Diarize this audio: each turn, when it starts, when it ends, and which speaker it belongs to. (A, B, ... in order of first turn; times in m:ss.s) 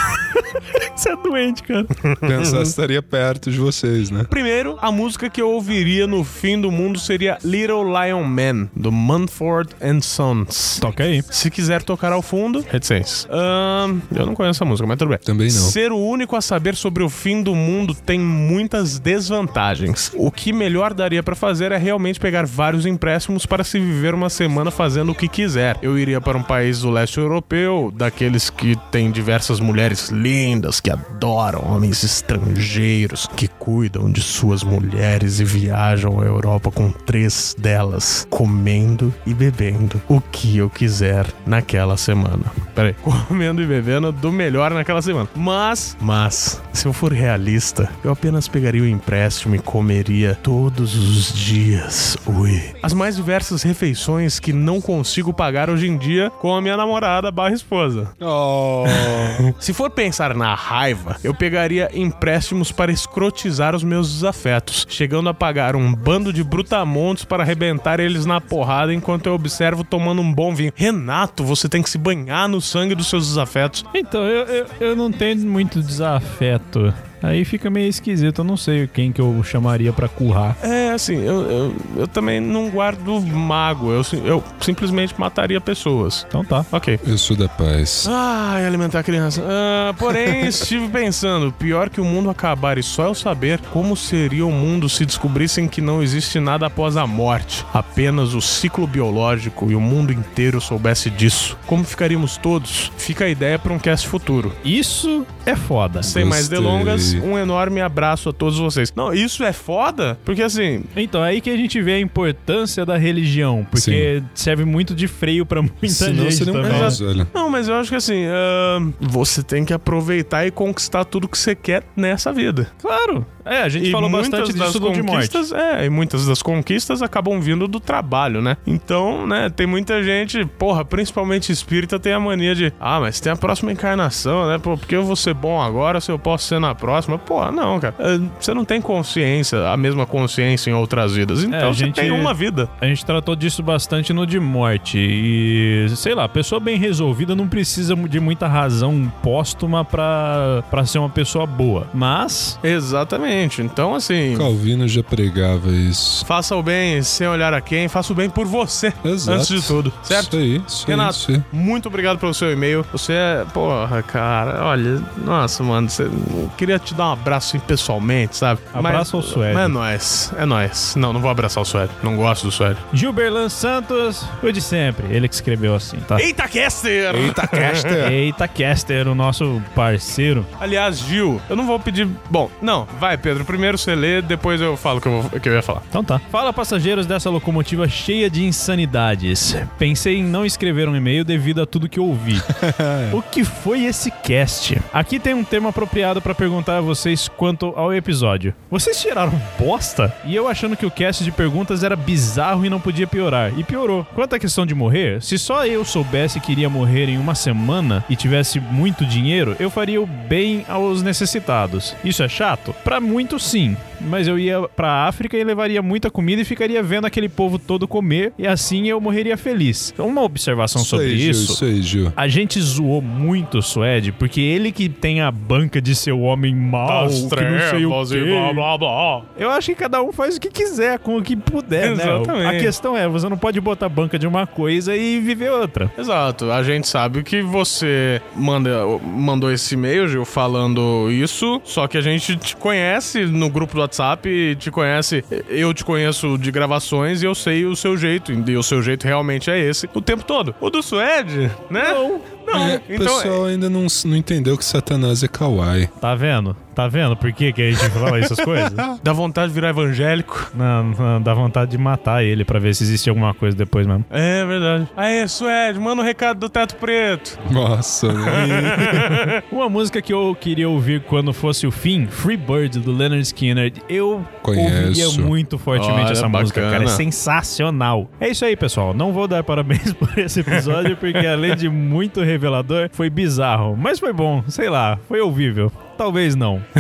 0:00.3-0:02.0 A
0:02.1-0:02.7 B
0:02.2-0:04.3 C
0:04.3-0:58.1 B
0:10.8-0:11.3 A
0:15.2-0:15.8 C
0:58.2-0:59.4 C
0:58.8-1:13.9 B
1:13.9-1:20.6 A
1:20.6-1:27.0 B
1:26.3-1:26.7 A
1:27.0-1:28.1 C
1:28.0-1:44.6 B
1:30.1-1:30.6 C
1:44.6-1:46.1 A
1:46.0-1:47.2 C
1:46.0-1:50.9 B
1:51.0-1:57.0 A
1:53.8-1:54.1 C
1:55.8-1:57.3 C
1:56.6-2:02.7 B
2:02.8-2:05.4 A
2:03.8-2:22.7 B
2:21.5-2:32.6 A
2:32.6-2:34.5 B
2:34.3-2:36.3 C
2:36.3-2:52.8 B
2:39.0-2:41.5 C
2:48.7-2:49.7 A
2:52.9-2:56.2 A
2:56.2-2:58.0 B
2:57.1-2:58.2 C
2:58.0-3:00.5 A
3:00.6-3:05.8 B
3:05.9-3:12.5 A
3:12.4-3:13.2 C
3:13.1-3:41.6 A
3:40.8-3:42.2 C
3:42.2-3:55.9 A
3:46.8-3:48.8 B
3:51.8-3:52.7 B
3:56.0-4:13.4 B
4:11.8-4:12.3 A
4:12.5-4:15.9 C
4:16.0-4:18.8 A
4:17.8-4:19.0 C
4:19.0-4:20.5 B
4:20.5-4:24.1 A
4:24.1-4:27.4 B
4:27.4-4:29.2 C
4:28.1-4:29.4 B
4:29.5-4:46.7 A
4:34.4-4:35.3 C
4:35.7-4:37.0 B
4:40.6-4:41.5 B